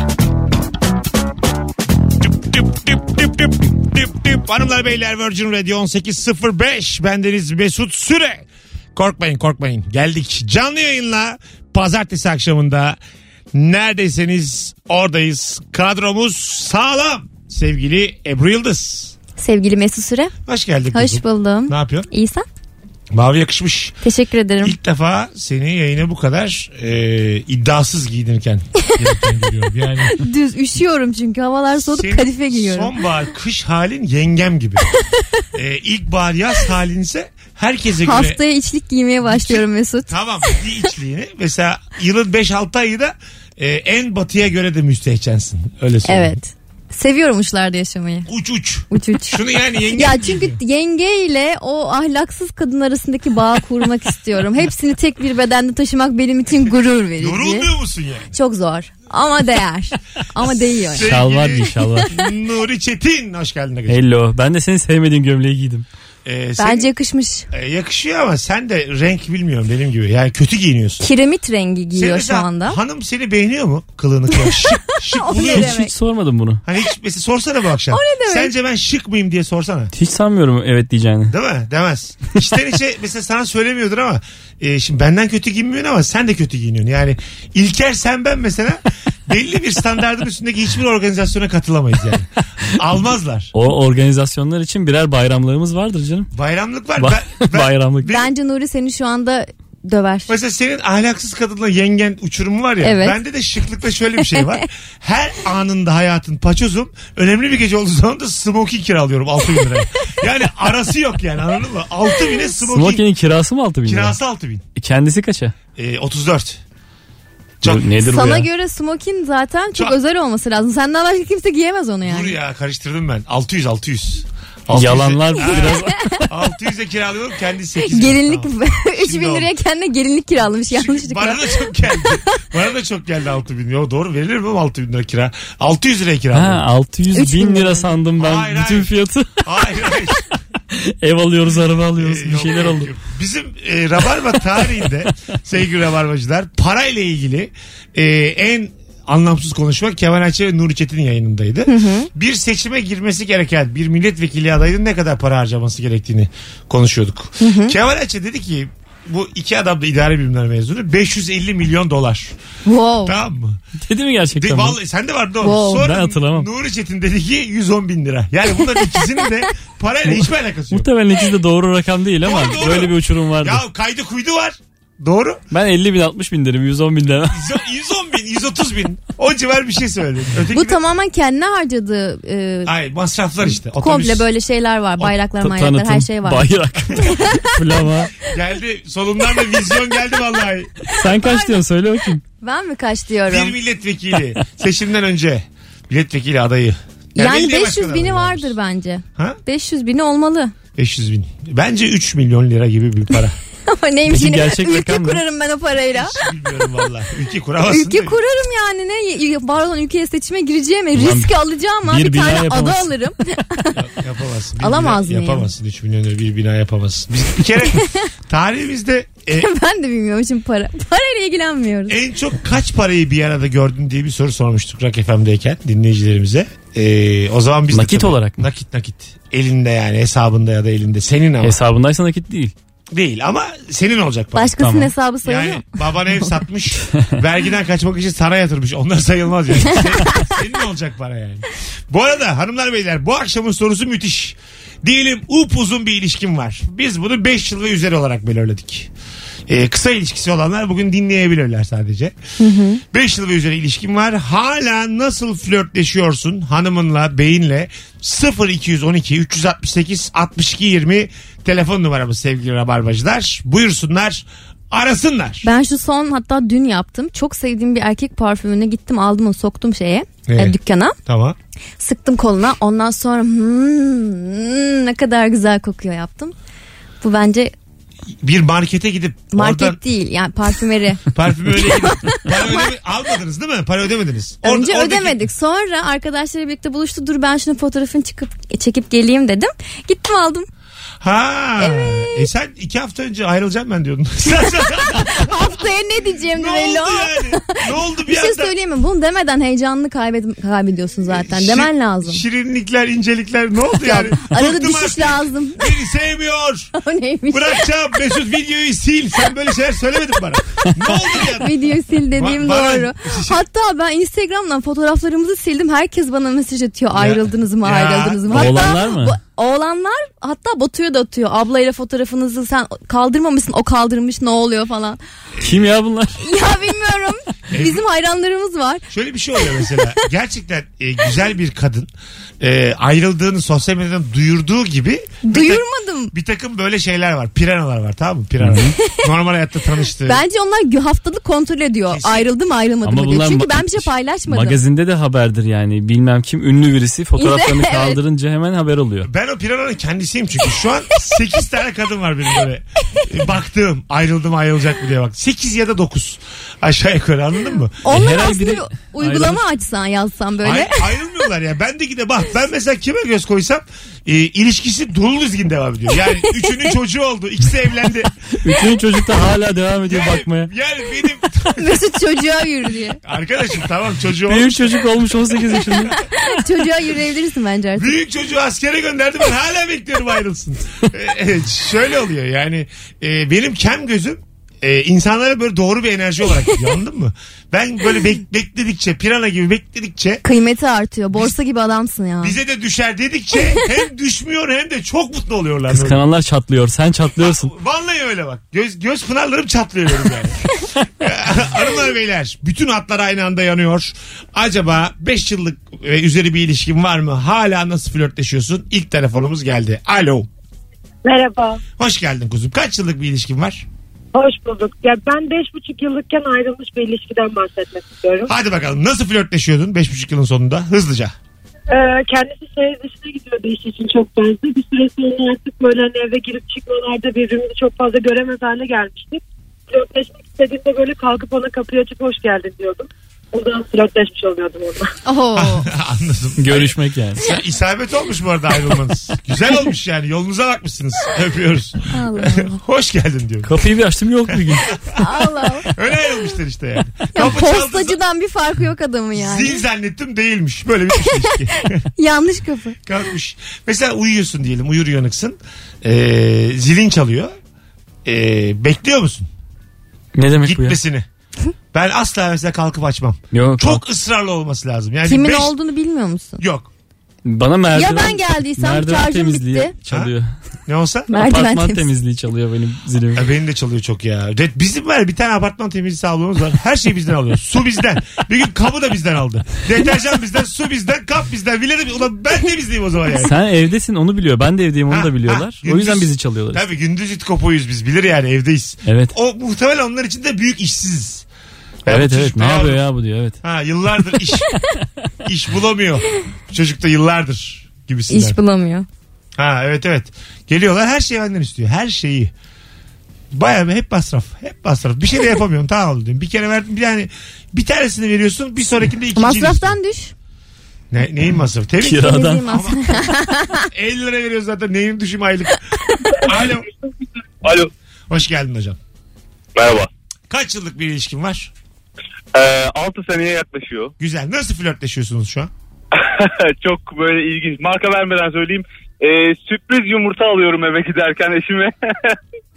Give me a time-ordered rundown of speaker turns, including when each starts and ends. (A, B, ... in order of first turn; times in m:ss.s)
0:02.2-0:13.0 A
0:13.5-0:19.1 A
0:19.4-0:20.3 B
0:20.4-0:22.1 A
0:20.9-0:22.4 B
0:23.1-0:24.0 A
0:24.0-0:24.7 B
0:24.6-0:30.2 A
0:30.1-0:32.9 B
0:31.8-0:34.9 A
0:35.5-0:38.4 A
0:38.0-0:40.6 B
0:39.2-0:46.4 A
0:46.1-0:48.3 B
0:48.3-0:50.6 A
0:48.9-0:49.4 B
0:49.9-0:57.7 B
0:57.2-0:58.3 A
0:58.3-1:01.1 B
1:00.9-1:04.0 A
1:01.0-1:02.1 C
1:01.7-1:02.2 B
1:03.9-1:05.8 C
1:06.2-1:06.9 A
1:06.6-1:07.5 B
1:07.5-1:11.0 A
1:11.0-1:12.8 B
1:11.9-1:15.7 A
1:14.4-1:15.9 B
1:15.4-1:16.6 C
1:16.6-1:19.9 A
1:17.9-1:18.5 B
1:19.9-1:21.3 C
1:21.3-1:33.5 A
1:33.5-1:36.3 C
1:36.3-1:38.3 A
1:37.0-1:38.1 C
1:38.0-1:40.3 B
1:40.3-1:53.0 A
1:42.8-1:43.2 B
1:44.3-1:44.6 B
1:52.7-1:54.2 C
1:53.8-1:54.6 A
1:54.8-1:55.5 C
1:55.8-1:56.6 A
1:57.6-1:58.5 C
1:58.0-2:02.3 B
2:02.0-2:09.5 A
2:04.7-2:06.2 C
2:05.4-2:06.2 B
2:07.8-2:11.5 B
2:10.7-2:16.6 A
2:12.1-2:12.3 B
2:16.3-2:19.5 C
2:17.1-2:17.9 B
2:18.2-2:20.2 A
2:20.7-2:22.9 C
2:22.0-2:42.3 A
2:31.7-2:32.1 B
2:37.4-2:37.7 B
2:42.6-2:43.1 B
2:43.0-2:43.6 A
2:43.8-2:44.8 C
2:44.4-2:50.9 A
2:45.4-2:45.9 B
2:45.8-2:46.5 C
2:50.0-2:53.6 C
2:52.2-2:55.4 A
2:55.5-2:57.5 C
2:57.3-3:00.8 A
3:00.5-3:02.7 B
3:02.6-3:04.3 A
3:03.8-3:07.5 B
3:05.4-3:08.2 C
3:08.3-3:10.8 A
3:10.9-3:12.2 C
3:11.0-3:11.6 B
3:12.4-3:13.5 B
3:13.3-3:18.5 A
3:17.2-3:20.5 B
3:20.7-3:23.4 A
3:23.7-3:26.2 B
3:24.1-3:25.2 C
3:25.9-3:28.2 A
3:27.6-3:33.8 B
3:30.9-3:32.9 C
3:33.7-3:39.5 A
3:34.6-3:35.5 B
3:37.6-3:38.1 B
3:39.3-3:42.0 B
3:41.9-3:51.6 A
3:47.7-3:48.4 C
3:51.4-3:52.5 C
3:52.9-3:54.6 A
3:54.3-3:55.6 B
3:54.6-3:54.9 C
3:55.2-4:08.9 A
3:59.6-4:00.2 B
4:09.5-4:12.1 A
4:12.4-4:12.8 B
4:12.8-4:25.5 A
4:25.4-4:31.0 B
4:30.3-4:31.4 A
4:31.8-4:36.3 B
4:37.0-4:37.5 B
4:38.2-4:39.8 A
4:39.3-4:42.7 B
4:41.1-4:45.2 A
4:44.4-4:50.5 B
4:51.0-4:55.6 A
4:51.6-4:52.3 B
4:54.6-5:02.2 B
4:56.3-4:58.5 A
5:01.1-5:06.7 A
5:03.7-5:05.8 B
5:06.7-5:07.7 B
5:07.3-5:11.6 A
5:11.3-5:25.0 B
5:12.2-5:13.4 A
5:16.9-5:18.8 A
5:18.3-5:19.2 C
5:25.3-5:25.7 A
5:25.4-5:26.2 C
5:26.2-5:28.9 B
5:27.5-5:27.8 A
5:28.9-5:40.2 A
5:29.4-5:30.0 B
5:35.2-5:36.1 B
5:38.4-5:38.7 C
5:40.0-5:44.6 B
5:41.9-5:42.3 A
5:42.8-5:49.1 C
5:47.2-5:48.0 B
5:49.0-5:57.8 A
5:57.8-6:00.8 B
5:57.8-5:59.4 C
6:00.4-6:08.1 A
6:06.3-6:06.7 B
6:08.4-6:10.5 C
6:09.9-6:11.8 A
6:11.5-6:13.0 B
6:13.0-6:14.9 A
6:14.2-6:16.0 C
6:15.9-6:17.9 B
6:17.7-6:30.2 A
6:30.2-6:32.4 B
6:32.2-6:36.0 A
6:35.7-6:37.5 C
6:37.2-6:40.5 A
6:41.0-6:50.3 A
6:51.0-6:51.6 D
6:51.8-6:53.6 A
6:54.1-6:58.3 D
6:58.2-7:01.1 A
7:01.7-7:14.9 D
7:15.0-7:15.7 B
7:15.3-7:23.5 A
7:16.4-7:17.2 C
7:21.9-7:22.6 B
7:23.4-7:24.8 C
7:24.3-7:25.0 A
7:25.0-7:25.7 B
7:25.6-7:28.0 A
7:27.1-7:29.6 B
7:29.1-7:31.8 A
7:31.0-7:32.8 B
7:32.8-7:37.3 A
7:38.0-7:39.3 A
7:40.1-7:40.8 C
7:40.4-7:41.1 A
7:41.7-7:45.5 A
7:43.3-7:43.8 C
7:45.0-7:46.4 B
7:46.4-7:46.7 A
7:47.2-7:50.3 C
7:47.7-7:49.7 B
7:50.7-7:51.1 A
7:51.1-7:51.9 B
7:51.1-7:53.2 C
7:53.1-8:03.3 A
8:03.2-8:06.6 C
8:04.9-8:11.2 A
8:08.8-8:09.1 C
8:11.8-8:12.8 A
8:11.9-8:13.4 C
8:13.4-8:14.5 A
8:15.2-8:18.4 A
8:18.1-8:18.9 B
8:19.4-8:22.3 A
8:23.3-8:29.8 A
8:29.2-8:30.1 B
8:30.9-8:35.6 A
8:31.8-8:32.4 C
8:31.9-8:33.7 B
8:36.2-8:36.7 A
8:37.4-8:37.7 E
8:38.1-8:38.8 A
8:39.6-8:39.9 E
8:40.3-8:41.5 A
8:42.3-8:43.9 E
8:44.0-8:45.5 A
8:46.0-8:52.2 E